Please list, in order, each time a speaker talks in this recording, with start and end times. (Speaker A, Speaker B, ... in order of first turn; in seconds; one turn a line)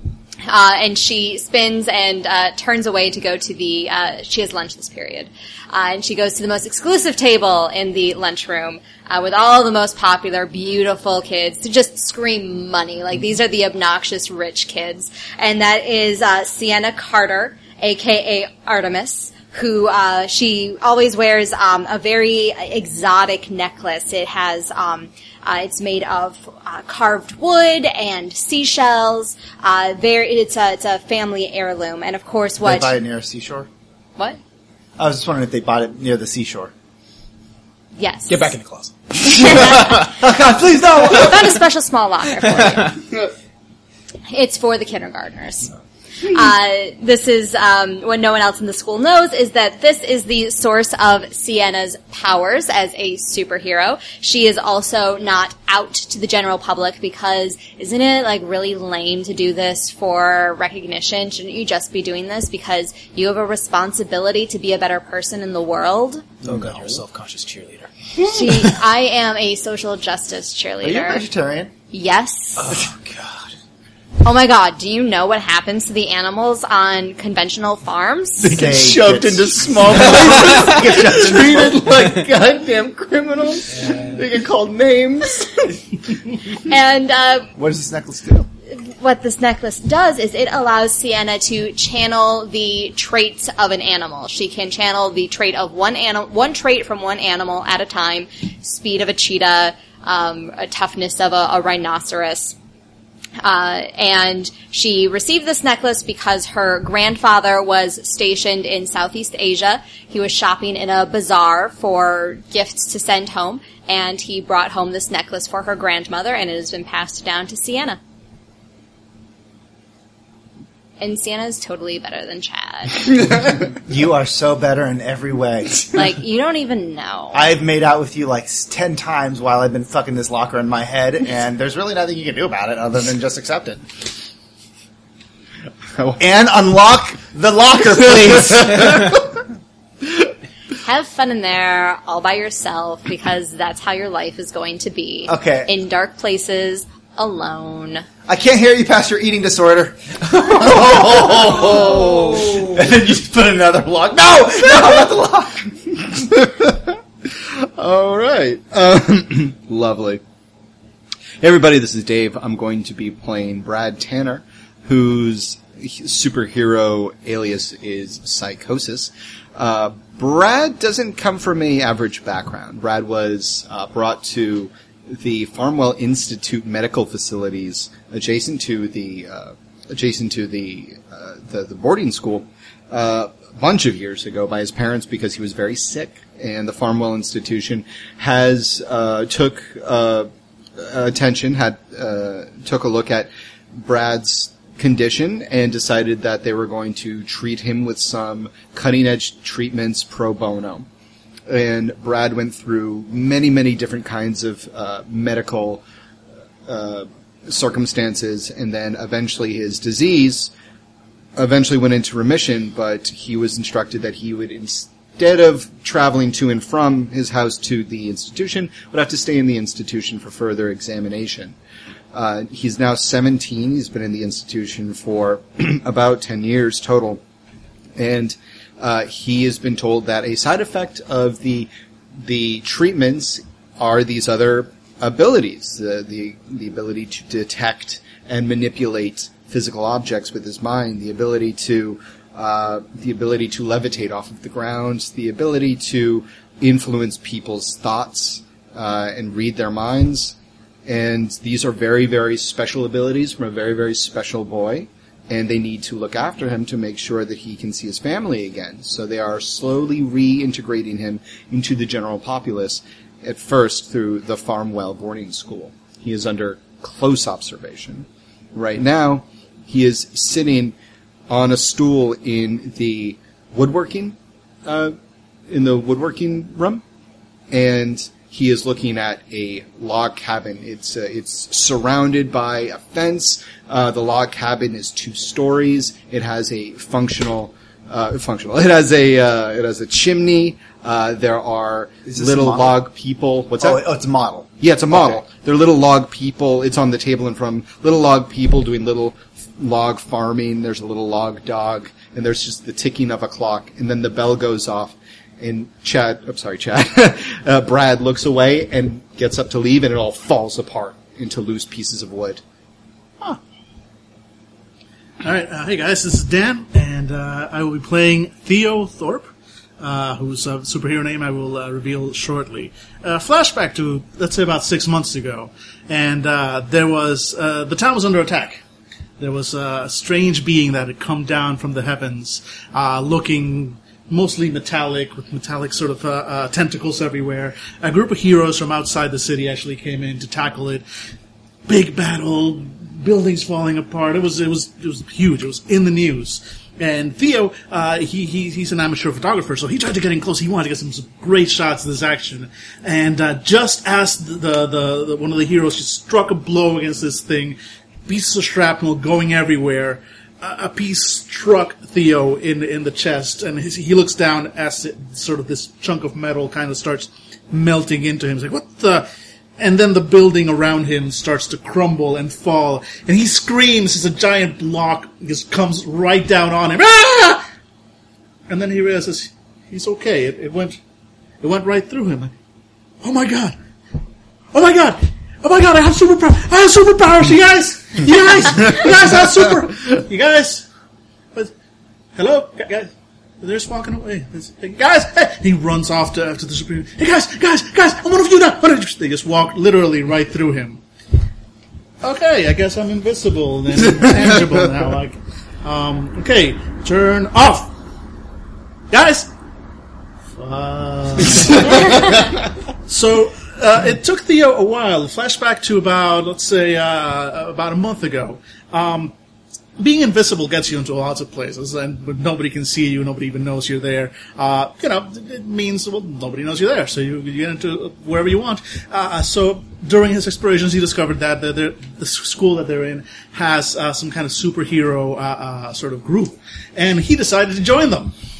Speaker A: 0.5-32.9
Speaker B: 32.6-33.7
Speaker B: 35.0-36.7
Speaker A: 38.0-38.5
Speaker C: 38.3-39.6
Speaker A: 39.2-40.1
Speaker B: 39.4-41.5
Speaker A: 41.0-43.0
Speaker A: 44.3-45.7
Speaker A: 46.2-66.3
Speaker C: 66.4-67.9
Speaker A: 68.2-71.2
Speaker B: 70.8-71.7
Speaker A: 71.9-72.8
Speaker C: 72.6-73.4
Speaker A: 74.2-78.6
Speaker B: 78.4-81.9
Speaker D: 78.5-85.8
Speaker A: 86.5-87.5
Speaker B: 87.6-88.5
Speaker A: 88.7-102.5
Speaker A: 103.4-118.0
Speaker A: 121.0-123.1
Speaker B: 123.3-126.0
Speaker A: 125.9-127.4
Speaker B: 127.3-133.8
Speaker B: 136.2-139.2
Speaker A: 140.8-148.1
Speaker B: 145.3-145.7
Speaker B: 148.3-156.1
Speaker D: 150.5-152.7
Speaker D: 156.1-160.2
Speaker D: 161.4-200.9
Speaker D: 201.5-205.8
Speaker D: 206.7-210.5
Speaker D: 211.4-221.6
Speaker D: 222.1-227.2
Speaker D: 228.0-231.7
Speaker D: 232.2-270.8
Speaker D: 271.3-274.9
Speaker D: 275.5-276.8
Speaker D: 277.5-293.8
Speaker B: 292.1-292.7
Speaker B: 293.6-295.2
Speaker D: 294.6-312.4
Speaker E: 315.2-328.6
Speaker E: 329.2-340.9
Speaker E: 341.7-369.1
Speaker E: 369.6-377.4
Speaker E: 378.5-380.8
Speaker E: 381.4-382.3
Speaker E: 383.0-383.6
Speaker E: 384.5-390.7
Speaker E: 392.2-392.9
Speaker E: 393.4-400.8
Speaker E: 402.0-407.7
Speaker E: 408.9-409.3
Speaker E: 410.4-419.1
Speaker E: 419.8-438.1